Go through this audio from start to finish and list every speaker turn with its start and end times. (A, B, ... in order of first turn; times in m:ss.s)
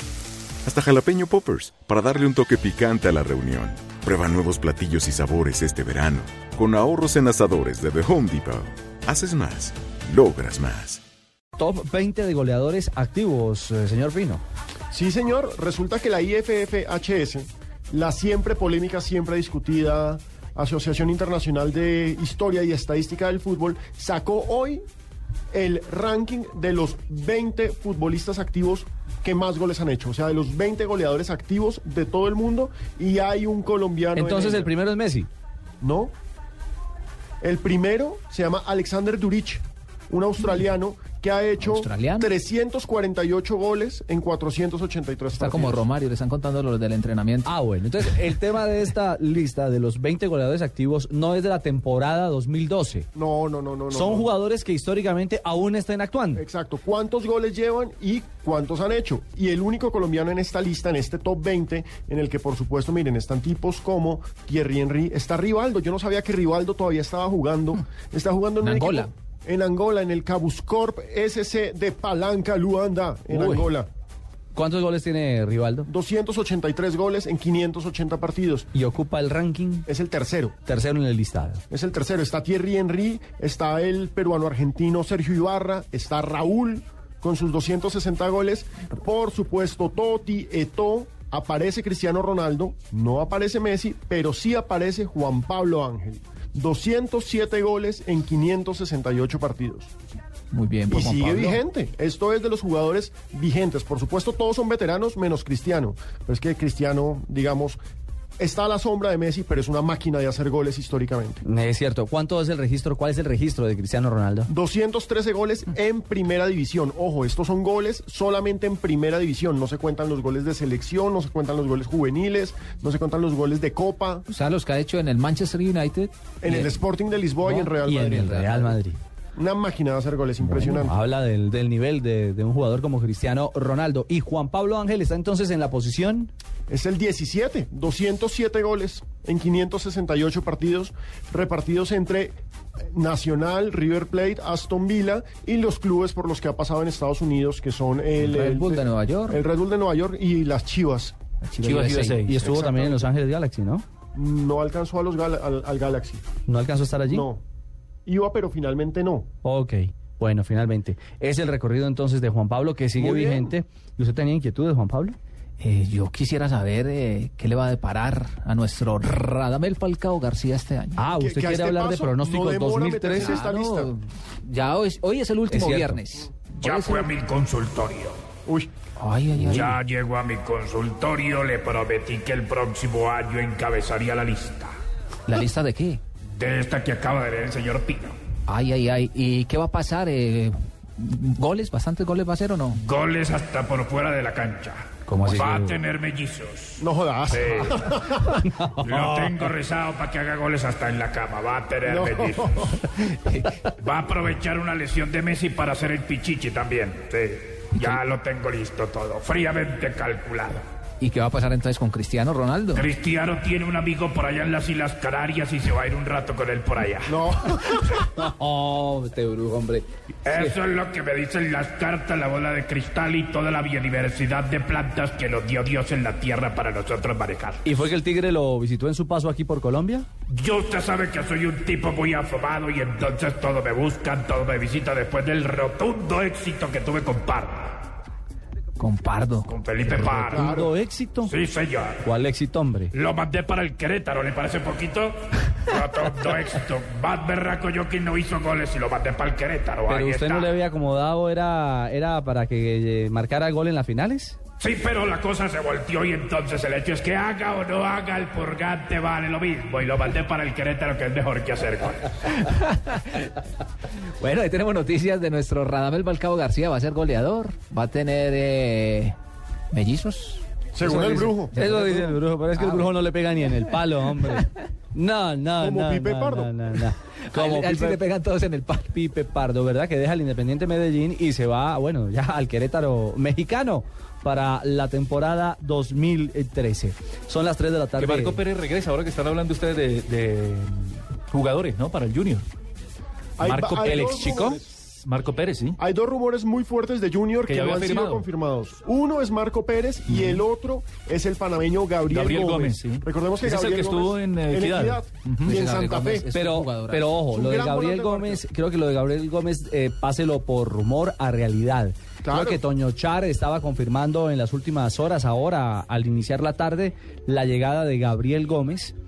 0:00.6-0:11.0 A
0:11.6-0:14.4 B
0:14.9-0:24.8 C
0:25.5-0:34.7 C
0:34.1-0:35.3 B
0:35.8-0:36.1 C
0:37.4-0:45.8 C
0:41.6-0:42.3 D
0:45.4-0:47.5 D
0:47.4-0:53.0 B
0:53.1-0:54.3 C
0:53.9-0:56.4 B
0:56.3-1:13.9 C
1:08.6-1:09.1 D
1:13.3-1:13.7 B
1:14.5-1:15.9 B
1:15.9-1:18.7 C
1:18.7-1:19.9 B
1:19.8-1:20.6 C
1:20.6-1:21.6 B
1:21.7-1:39.9 C
1:40.5-1:41.6 D
1:40.9-1:47.8 C
1:48.4-1:51.4 C
1:51.4-1:54.5 B
1:54.5-2:04.2 C
2:04.3-2:06.7 D
2:06.4-2:08.8 C
2:07.8-2:09.0 B
2:09.3-2:11.0 C
2:10.4-2:16.3 B
2:16.7-2:22.4 C
2:22.9-2:31.2 C
2:28.2-2:29.4 D
2:31.4-2:32.3 D
2:31.7-2:32.3 E
2:32.1-2:33.8 B
2:32.3-2:33.1 C
2:34.1-2:36.2 C
2:36.5-2:37.3 B
2:37.1-2:37.4 C
2:38.0-2:39.3 C
2:39.4-2:45.2 B
2:42.9-2:43.5 C
2:45.6-2:51.0 D
2:51.0-2:53.5 B
2:51.1-2:53.9 C
2:53.2-2:57.1 D
2:55.5-2:56.0 B
2:56.6-2:58.2 F
2:58.4-2:58.7 C
2:59.0-2:59.8 D
2:59.3-3:04.7 F
3:05.2-3:06.0 D
3:06.3-3:08.2 F
3:08.5-3:12.8 D
3:12.7-3:17.9 F
3:15.1-3:15.8 B
3:16.8-3:18.4 C
3:18.3-3:19.5 B
3:18.8-3:22.8 F
3:21.8-3:22.8 C
3:22.9-3:23.6 D
3:23.8-3:30.6 F
3:27.7-3:28.0 D
3:31.0-3:32.8 D
3:32.7-3:37.7 F
3:37.0-3:38.0 C
3:37.9-3:40.5 B
3:40.2-3:47.8 F
3:47.6-3:50.1 B
3:50.3-3:57.9 F
3:58.8-3:59.5 D
3:59.4-4:00.6 F
3:59.9-4:01.3 B
4:00.0-4:00.7 C
4:01.2-4:02.0 F
4:02.0-4:02.9 B
4:02.9-4:10.5 F
4:09.9-4:14.4 B
4:14.6-4:22.4 F
4:22.4-4:23.4 D
4:24.0-4:29.2 D
4:29.7-4:30.4 D
4:30.7-4:31.5 C
4:30.8-4:38.0 B
4:31.5-4:32.9 D
4:35.6-4:36.5 C
4:37.3-4:39.0 D
4:38.9-4:48.4 B
4:47.9-4:52.5 E
4:53.4-4:54.7 C
4:53.4-4:55.8 E
4:55.8-5:06.3 C
4:57.4-4:58.2 E
5:02.1-5:05.5 E
5:05.4-5:07.2 D
5:06.3-5:18.9 B
5:07.3-5:08.4 C
5:12.2-5:12.6 C